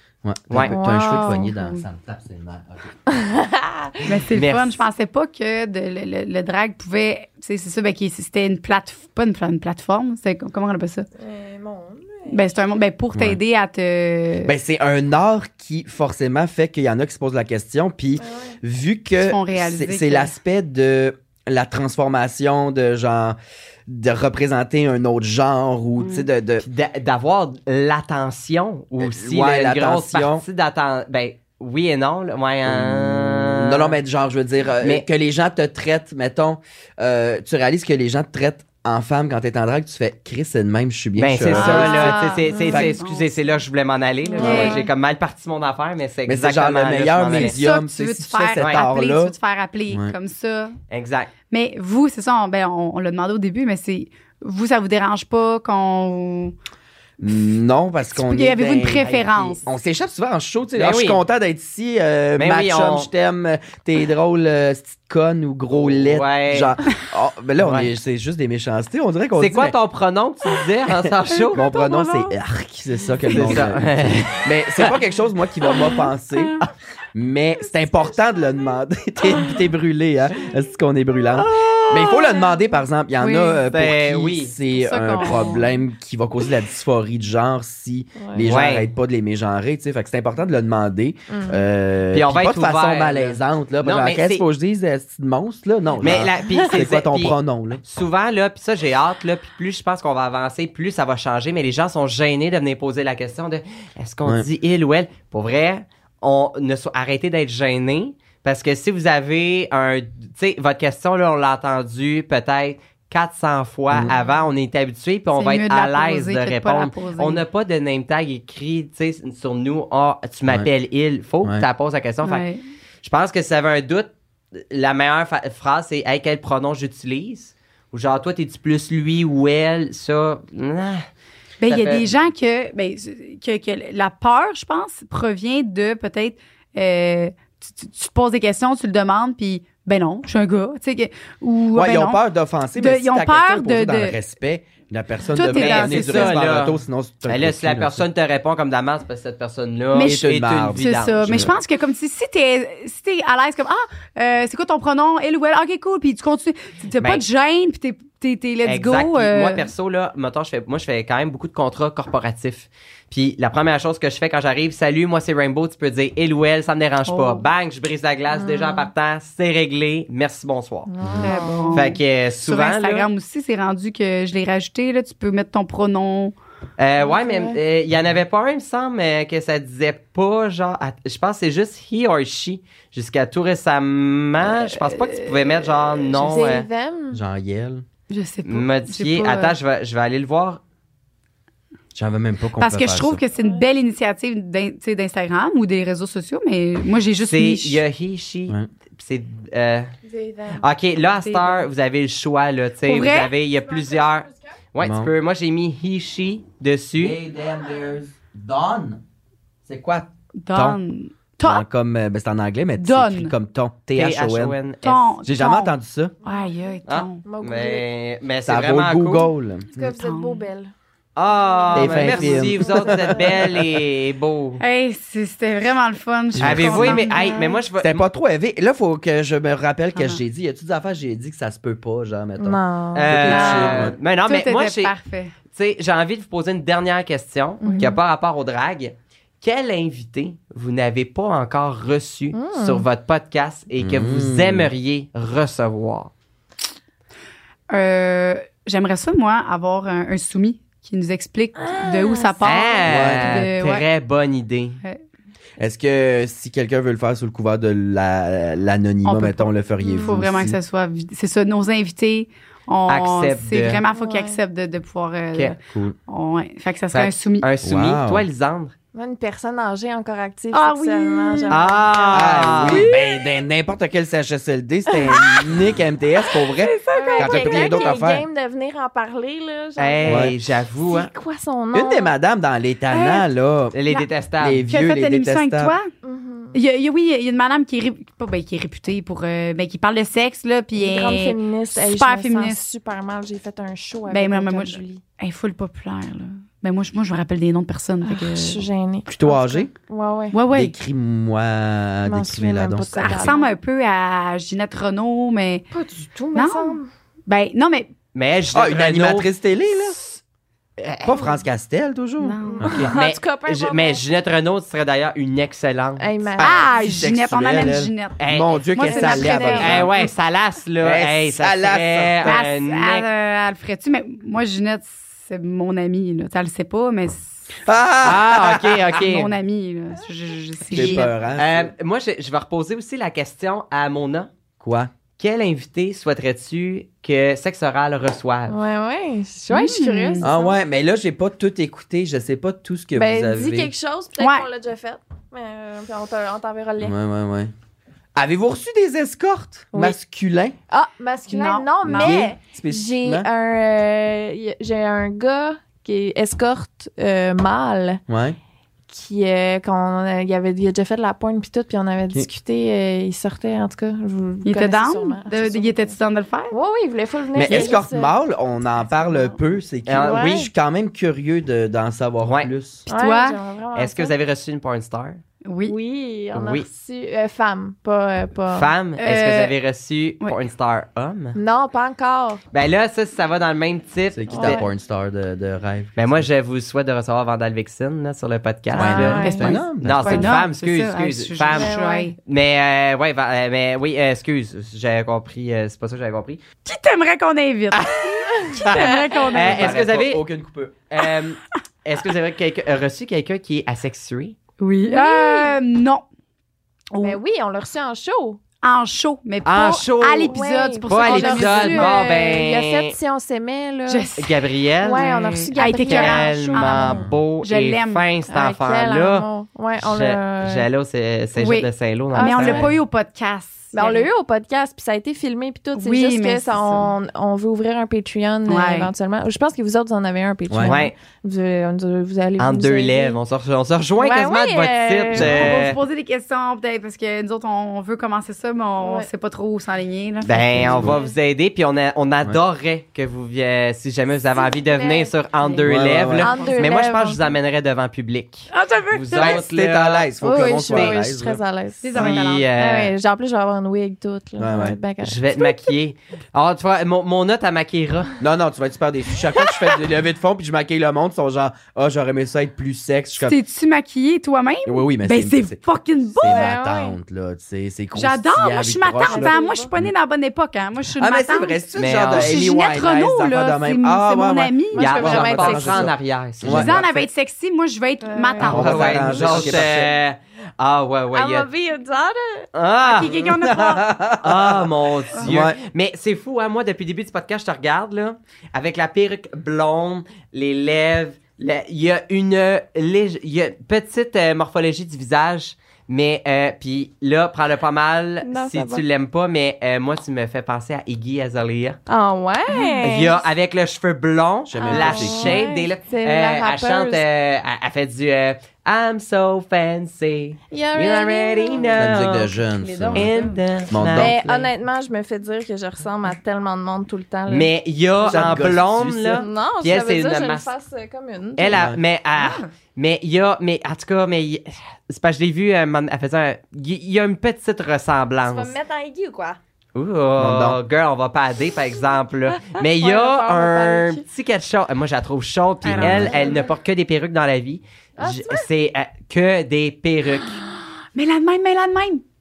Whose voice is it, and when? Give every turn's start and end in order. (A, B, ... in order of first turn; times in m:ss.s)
0:00.2-0:02.9 A
0:00.5-0:00.8 B
0:00.6-0:01.5 C
0:01.0-0:01.8 D
0:03.1-0:03.9 C
0:04.0-0:11.1 D
0:04.3-0:04.8 B
0:11.2-0:12.5 C
0:12.3-0:14.5 D
0:13.1-0:13.4 A
0:14.4-0:26.6 A
0:18.2-0:18.5 C
0:19.2-0:20.3 D
0:26.0-0:26.2 D
0:26.6-0:34.0 B
0:29.0-0:30.4 A
0:32.6-0:43.0 A
0:41.2-0:47.5 B
0:41.5-0:43.6 D
0:42.5-0:42.9 C
0:44.2-0:44.9 D
0:44.4-0:44.8 C
0:44.4-0:44.7 A
0:46.3-0:49.3 A
0:47.3-0:50.8 D
0:48.6-0:48.8 B
0:49.9-0:50.1 A
0:50.9-0:51.3 B
0:51.5-0:56.5 D
0:57.2-1:09.8 A
0:58.1-0:59.6 D
1:00.8-1:01.2 B
1:02.4-1:03.1 B
1:05.7-1:06.7 B
1:07.6-1:07.9 B
1:09.4-1:11.6 B
1:10.9-1:16.6 A
1:11.7-1:12.3 C
1:13.3-1:15.0 B
1:17.1-1:37.8 A
1:21.4-1:22.2 B
1:23.2-1:23.6 D
1:23.7-1:24.6 B
1:24.7-1:25.7 D
1:28.2-1:28.4 C
1:28.4-1:28.9 B
1:31.3-1:31.6 C
1:32.1-1:34.4 B
1:36.0-2:02.4 B
1:55.3-1:57.4 D
2:02.2-2:02.6 D
2:03.0-2:11.1 B
2:11.6-2:22.2 D
2:11.6-2:12.1 B
2:21.7-2:28.0 A
2:22.8-2:24.2 D
2:25.3-2:26.4 D
2:25.5-2:31.5 B
2:29.9-2:39.7 D
2:30.0-2:31.5 A
2:38.6-2:50.9 B
2:47.1-2:47.4 D
2:48.3-2:48.9 C
2:50.9-2:51.8 C
2:51.0-2:51.3 A
2:51.2-2:56.3 D
2:51.7-2:53.1 B
2:56.8-3:06.7 B
2:57.0-2:57.6 C
3:04.4-3:05.7 D
3:06.1-3:07.2 C
3:07.1-3:07.8 A
3:08.1-3:09.6 D
3:08.4-3:10.6 B
3:11.9-3:13.2 A
3:12.6-3:17.8 D
3:13.4-3:13.6 C
3:17.3-3:19.9 B
3:20.0-3:20.7 C
3:20.5-3:27.2 B
3:21.2-3:21.6 D
3:22.8-3:23.3 D
3:23.5-3:24.4 C
3:24.8-3:25.1 A
3:27.0-3:29.0 A
3:29.6-3:30.8 A
3:30.4-3:31.6 D
3:31.4-3:34.6 A
3:32.8-3:33.3 D
3:33.9-3:35.1 B
3:34.8-3:35.7 D
3:35.2-3:36.1 A
3:36.2-3:37.2 D
3:36.2-3:37.8 C
3:36.8-3:39.3 B
3:38.4-3:39.8 A
3:39.7-3:40.7 C
3:39.8-3:40.5 D
3:41.2-3:44.6 B
3:41.4-3:43.0 C
3:41.7-3:43.8 A
3:44.6-3:47.4 D
3:46.3-3:47.0 A
3:46.4-3:48.0 B
3:47.0-3:47.6 C
3:47.8-3:53.9 A
3:49.9-3:50.2 D
3:52.4-3:53.2 C
3:52.9-3:54.9 B
3:53.2-3:55.3 D
3:55.5-4:06.1 B
3:57.6-3:58.0 C
4:02.3-4:02.8 C
4:03.8-4:04.7 A
4:07.7-4:13.8 D
4:11.6-4:12.4 C
4:12.4-4:14.8 B
4:12.9-4:13.4 A
4:15.6-4:20.6 A
4:19.0-4:27.5 D
4:19.8-4:20.2 C
4:22.9-4:23.8 B
4:23.9-4:24.4 C
4:25.7-4:26.0 A
4:26.9-4:28.7 B
4:27.6-4:28.2 A
4:28.9-4:32.5 C
4:30.5-4:33.2 D
4:31.5-4:32.8 B
4:32.1-4:38.2 A
4:34.9-4:35.6 D
4:36.2-4:37.9 D
4:36.9-4:42.1 C
4:39.8-4:41.1 B
4:40.0-4:40.3 A
4:41.7-4:43.8 A
4:42.9-4:43.2 D
4:43.7-4:44.7 B
4:44.4-4:45.7 A
4:44.7-4:45.9 D
4:46.0-4:46.6 C
4:46.5-4:52.6 D
4:50.7-4:55.0 C
4:54.1-4:58.6 D
4:58.0-5:00.4 C
4:59.1-4:59.7 A
5:00.3-5:00.7 D
5:00.5-5:03.3 A
5:02.1-5:03.5 C
5:03.0-5:05.7 D
5:05.7-5:06.9 C
5:06.3-5:07.9 D
5:08.1-5:09.3 B
5:08.5-5:10.0 A
5:10.8-5:11.3 B
5:11.0-5:12.9 A
5:12.2-5:12.7 D
5:12.5-5:14.0 C
5:12.7-5:16.0 B
5:16.0-5:16.9 C
5:16.4-5:19.9 A
5:16.4-5:20.1 D
5:18.2-5:18.6 B
5:18.8-5:19.9 C
5:19.6-5:23.1 B
5:20.8-5:22.4 A
5:22.2-5:27.4 D
5:27.6-5:28.9 A
5:28.0-5:29.3 B
5:28.9-5:31.2 D
5:30.7-5:31.7 A
5:30.7-5:34.3 B
5:34.6-5:34.9 A
5:35.2-5:38.6 B
5:38.5-5:40.6 C
5:39.5-5:40.3 D
5:40.2-5:43.7 A
5:42.9-5:46.9 C
5:44.2-5:44.5 D
5:46.8-5:47.5 A
5:48.2-5:50.6 A
5:50.7-5:58.0 C
5:51.3-5:52.2 D
5:51.8-5:53.3 A
5:58.1-5:58.4 A
5:58.9-6:05.9 C
6:04.4-6:06.5 D
6:06.5-6:08.2 C
6:07.3-6:12.8 A
6:07.4-6:07.8 D
6:08.8-6:09.4 D
6:09.8-6:10.5 B
6:10.0-6:10.5 C
6:12.2-6:12.5 B
6:12.9-6:13.4 D
6:12.9-6:14.1 C
6:13.7-6:15.2 B
6:15.4-6:15.8 D
6:15.6-6:18.7 C
6:16.3-6:16.7 B
6:18.5-6:21.4 B
6:19.0-6:19.5 D
6:21.3-6:22.4 C
6:22.5-6:24.6 B
6:24.1-6:26.3 A
6:24.3-6:24.6 C
6:26.0-6:36.4 B
6:28.7-6:30.4 A
6:28.8-6:29.6 C
6:28.8-6:32.2 D
6:31.5-6:32.1 C
6:36.6-6:39.8 D
6:37.7-6:40.2 B
6:38.6-6:39.2 C
6:39.3-6:40.8 A
6:40.9-6:44.4 B
6:44.6-6:45.5 C
6:44.8-6:46.0 D
6:46.9-6:47.2 D
6:47.0-6:48.4 C
6:48.6-6:51.9 D
6:49.4-6:53.0 B
6:50.3-6:54.2 C
6:53.9-6:58.0 D
6:54.2-6:59.3 B
6:54.8-6:56.9 C
6:58.3-7:00.7 C
6:59.8-7:02.7 B
7:01.4-7:04.1 D
7:02.1-7:02.7 C
7:03.7-7:13.2 C
7:05.7-7:06.9 D
7:08.5-7:08.9 D
7:10.5-7:10.7 A
7:10.6-7:11.0 B
7:12.4-7:15.8 B
7:14.0-7:15.5 C
7:15.1-7:21.1 D
7:18.8-7:19.1 C
7:20.2-7:31.0 B
7:20.7-7:21.0 A
7:24.3-7:25.1 C
7:25.4-7:25.6 D
7:25.6-7:26.3 A
7:26.2-7:26.7 D
7:26.2-7:27.3 C
7:28.5-7:29.4 D
7:29.1-7:31.4 A
7:30.2-7:35.4 C
7:31.8-7:32.5 D
7:31.9-7:32.9 B
7:34.4-7:34.8 A
7:35.0-7:38.2 B
7:38.2-7:43.4 A
7:43.2-7:46.5 D
7:44.6-7:45.6 A
7:46.1-7:49.9 A
7:46.2-7:47.0 C
7:47.9-7:55.1 D
7:49.0-7:49.7 C
7:51.0-7:56.8 A
7:51.8-7:52.4 B
7:54.7-7:57.1 B
7:54.8-7:55.9 C
7:56.4-7:59.5 D
7:58.0-7:59.6 C
7:58.4-8:01.5 B
7:58.4-7:59.9 A
8:01.1-8:02.5 C
8:02.5-8:03.2 B
8:02.8-8:04.0 D
8:02.9-8:05.6 A
8:04.2-8:21.8 B
8:18.2-8:18.8 C
8:21.9-8:23.2 C
8:22.5-8:22.9 D
8:22.8-8:32.4 B
8:24.5-8:25.4 A
8:24.6-8:27.0 C
8:30.5-8:31.7 C
8:31.7-8:33.1 A
8:32.4-8:33.4 D
8:32.9-8:34.5 B
8:33.7-8:34.1 A
8:33.9-8:37.5 C
8:37.3-8:40.5 B
8:38.0-8:39.2 A
8:39.1-8:41.6 C
8:41.4-8:48.5 B
8:41.5-8:41.8 A
8:48.2-8:49.4 C
8:49.7-9:00.4 B
8:50.2-8:50.6 A
8:52.5-8:54.0 C
8:55.6-8:56.5 C
8:55.7-8:56.4 A
8:58.0-8:58.5 C
9:00.9-9:02.0 D